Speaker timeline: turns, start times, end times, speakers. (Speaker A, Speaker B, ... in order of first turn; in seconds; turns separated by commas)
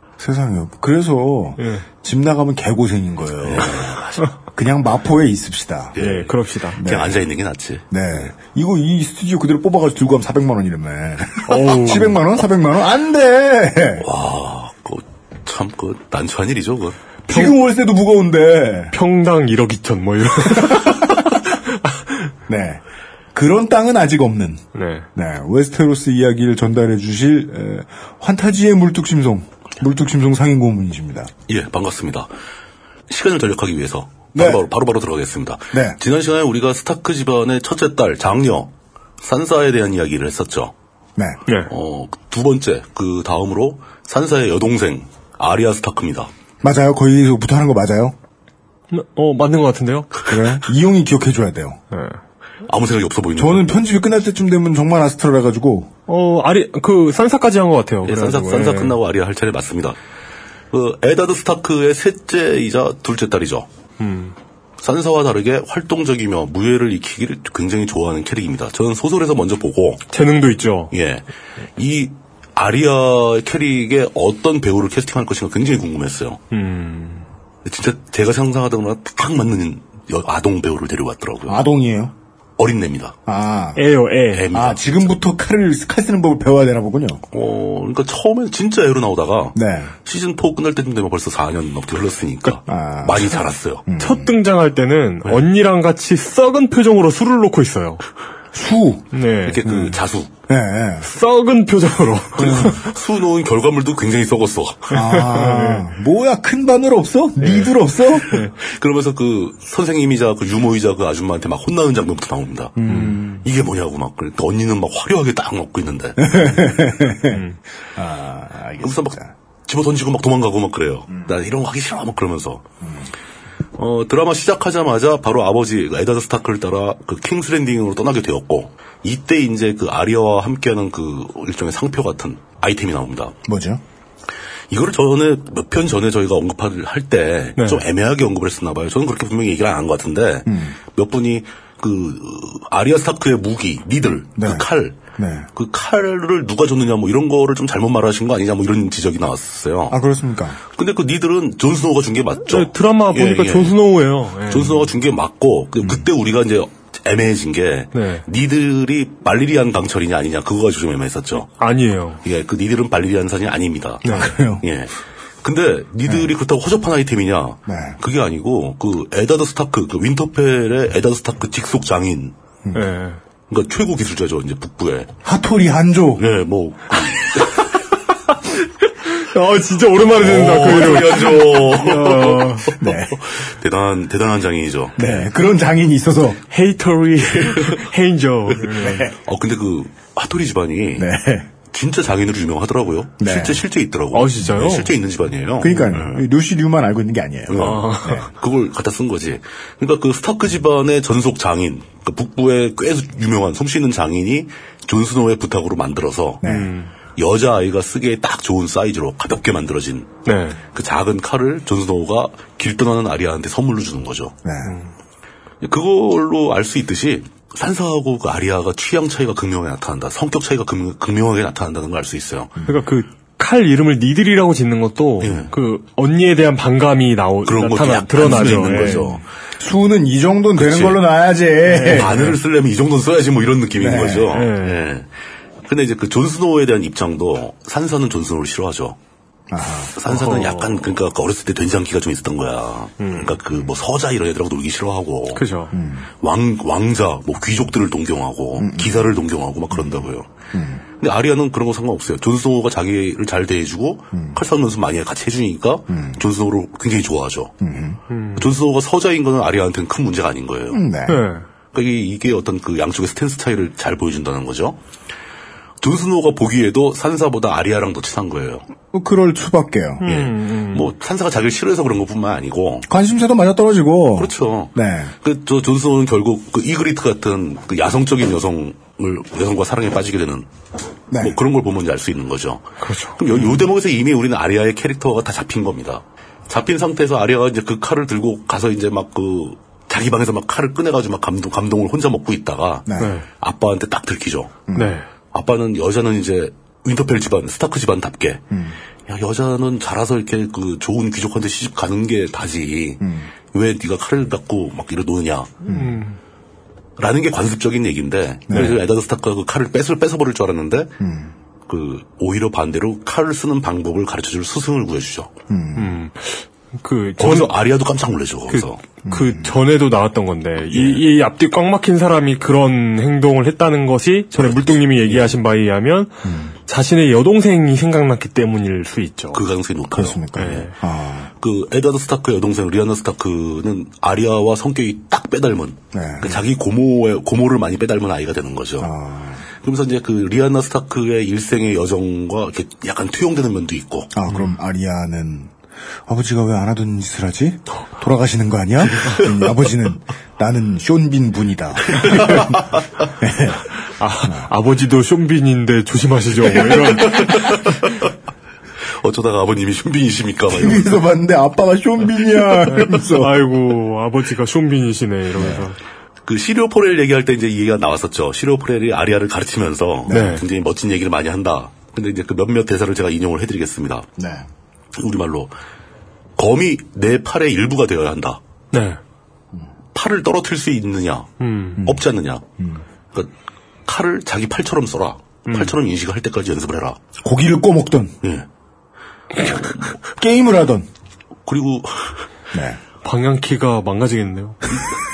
Speaker A: 0.2-3.9, Speaker B: 1.6-1.9, Speaker C: 3.4-4.2, Speaker A: 4.5-6.0, Speaker C: 6.0-7.8, Speaker B: 6.0-6.8, Speaker A: 6.8-7.2, Speaker A: 7.9-14.0, Speaker B: 11.5-12.2, Speaker C: 14.0-17.0, Speaker A: 17.3-18.9, Speaker B: 17.3-17.6, Speaker B: 18.9-22.3, Speaker A: 20.5-21.0, Speaker A: 22.5-22.8, Speaker A: 23.3-24.6, Speaker B: 24.7-25.1, Speaker A: 25.1-31.3, Speaker C: 31.5-32.3, Speaker C: 33.1-40.7, Speaker A: 34.3-34.6, Speaker A: 35.7-36.0, Speaker C: 41.7-46.3, Speaker A: 46.6-48.1, Speaker B: 48.9-50.1, Speaker A: 50.2-51.8, Speaker B: 51.9-52.2, Speaker C: 52.7-53.7, Speaker A: 53.4-55.9, Speaker B: 56.1-59.0, Speaker C: 58.0-60.0, Speaker C: 60.7-63.7, Speaker B: 64.0-64.3, Speaker C: 64.8-70.0, Speaker B: 70.1-70.9, Speaker C: 70.9-71.2, Speaker C: 71.8-76.4, Speaker B: 76.5-77.2, Speaker C: 77.6-81.6, Speaker A: 81.5-82.1, Speaker C: 82.6-83.2, Speaker A: 83.3-83.8, Speaker B: 83.8-84.5, Speaker C: 84.3-85.1, Speaker A: 84.5-87.2, Speaker C: 87.3-93.8, Speaker A: 89.5-89.9, Speaker A: 92.7-93.3, Speaker A: 93.8-94.3, Speaker B: 94.0-98.0, Speaker A: 98.5-99.1, Speaker B: 99.1-99.7, Speaker C: 99.4-100.3, Speaker A: 99.6-101.1, Speaker B: 101.0-103.0, Speaker C: 102.4-105.0, Speaker A: 102.4-102.7, Speaker A: 104.9-108.4, Speaker B: 105.0-105.8, Speaker B: 107.4-108.5, Speaker C: 108.5-116.8, Speaker A: 112.8-113.4, Speaker B: 112.9-113.2, Speaker A: 116.2-119.3, Speaker B: 117.3-117.6, Speaker C: 118.8-122.6, Speaker A: 122.8-123.1, Speaker C: 123.8-133.3, Speaker A: 133.4-133.8, Speaker C: 134.7-145.0, Speaker B: 137.6-137.8, Speaker A: 140.4-140.8, Speaker A: 144.4-145.5, Speaker C: 145.6-150.0, Speaker A: 149.9-150.6, Speaker C: 150.7-153.8, Speaker B: 152.4-154.9, Speaker C: 154.5-161.5, Speaker B: 157.9-158.2, Speaker B: 161.6-162.2, Speaker C: 162.2-172.3, Speaker B: 164.0-164.3, Speaker A: 164.1-164.6, Speaker A: 166.1-166.3, Speaker A: 167.7-168.0, Speaker B: 172.7-173.2, Speaker C: 173.5-175.1, Speaker A: 175.2-176.3, Speaker C: 176.2-177.7, Speaker B: 179.0-182.7, Speaker C: 180.1-185.2, Speaker A: 182.8-183.2, Speaker A: 184.9-186.4, Speaker B: 186.5-189.1, Speaker A: 188.8-189.1, Speaker C: 189.2-191.1, Speaker A: 191.0-191.5, Speaker C: 191.7-196.2, Speaker A: 193.2-193.6, Speaker B: 194.1-194.9, Speaker A: 195.6-198.3, Speaker C: 197.5-206.4, Speaker B: 197.6-198.2, Speaker A: 206.4-206.7, Speaker B: 206.4-206.9, Speaker C: 207.2-210.1, Speaker B: 210.2-210.6, Speaker C: 210.7-214.3, Speaker A: 214.4-214.8, Speaker B: 214.6-214.9, Speaker C: 215.6-222.5, Speaker B: 222.7-229.1, Speaker C: 225.2-225.5, Speaker C: 227.4-229.2, Speaker A: 228.6-232.2, Speaker C: 230.6-231.1, Speaker B: 231.7-232.3, Speaker C: 231.9-235.1, Speaker A: 233.8-234.4, Speaker B: 234.3-234.9, Speaker C: 235.6-239.0, Speaker A: 239.5-239.9, Speaker C: 239.9-245.4, Speaker B: 240.1-240.8, Speaker B: 243.0-243.3, Speaker B: 245.3-245.7, Speaker A: 245.7-246.1, Speaker C: 246.2-250.3, Speaker A: 248.6-249.1, Speaker A: 249.7-250.8, Speaker C: 251.0-257.6, Speaker A: 255.9-256.2, Speaker A: 257.6-258.0, Speaker B: 258.1-258.5, Speaker C: 258.4-260.8, Speaker A: 260.7-261.3, Speaker B: 261.1-261.4, Speaker C: 261.7-264.8, Speaker C: 265.8-268.6, Speaker A: 268.9-270.0, Speaker B: 270.0-270.9, Speaker C: 270.0-272.9, Speaker A: 272.9-275.1, Speaker C: 274.1-280.5, Speaker A: 281.1-281.4, Speaker C: 281.2-294.7, Speaker B: 282.8-283.2, Speaker A: 283.3-283.6, Speaker A: 292.9-293.1, Speaker B: 293.0-293.2, Speaker A: 294.7-295.0, Speaker B: 294.7-295.1, Speaker C: 295.3-298.4, Speaker A: 298.5-298.8, Speaker C: 299.1-305.6, Speaker A: 303.0-303.3, Speaker A: 305.6-306.0, Speaker B: 305.7-306.2, Speaker C: 307.0-310.9, Speaker A: 308.5-308.8, Speaker A: 311.0-311.3, Speaker C: 311.7-315.3, Speaker A: 315.5-315.9, Speaker B: 315.8-317.5, Speaker C: 317.2-318.8, Speaker B: 318.5-329.4, Speaker A: 319.0-319.6, Speaker C: 320.7-321.0, Speaker C: 324.3-325.3, Speaker A: 326.2-326.5, Speaker C: 329.3-330.6, Speaker A: 329.9-331.3, Speaker B: 330.3-330.7, Speaker C: 331.4-338.9, Speaker A: 335.9-336.4, Speaker A: 338.8-339.5, Speaker C: 339.6-344.1, Speaker A: 344.1-345.5, Speaker A: 346.1-352.6, Speaker C: 351.9-352.8, Speaker A: 353.2-353.6, Speaker B: 354.0-357.8, Speaker C: 356.5-357.9, Speaker C: 359.0-361.0, Speaker A: 360.5-363.4, Speaker B: 362.7-365.8, Speaker A: 365.4-365.7, Speaker C: 366.2-374.1, Speaker A: 370.1-370.4, Speaker B: 370.1-370.4, Speaker A: 374.2-374.5, Speaker C: 374.9-375.5, Speaker C: 376.4-378.4, Speaker B: 378.7-379.0, Speaker C: 379.9-382.4, Speaker B: 381.4-381.8, Speaker A: 382.6-382.8, Speaker C: 383.9-387.0, Speaker B: 385.5-385.7, Speaker A: 387.2-388.2, Speaker A: 390.1-390.9, Speaker C: 391.4-392.2, Speaker A: 392.5-392.8, Speaker B: 393.0-394.6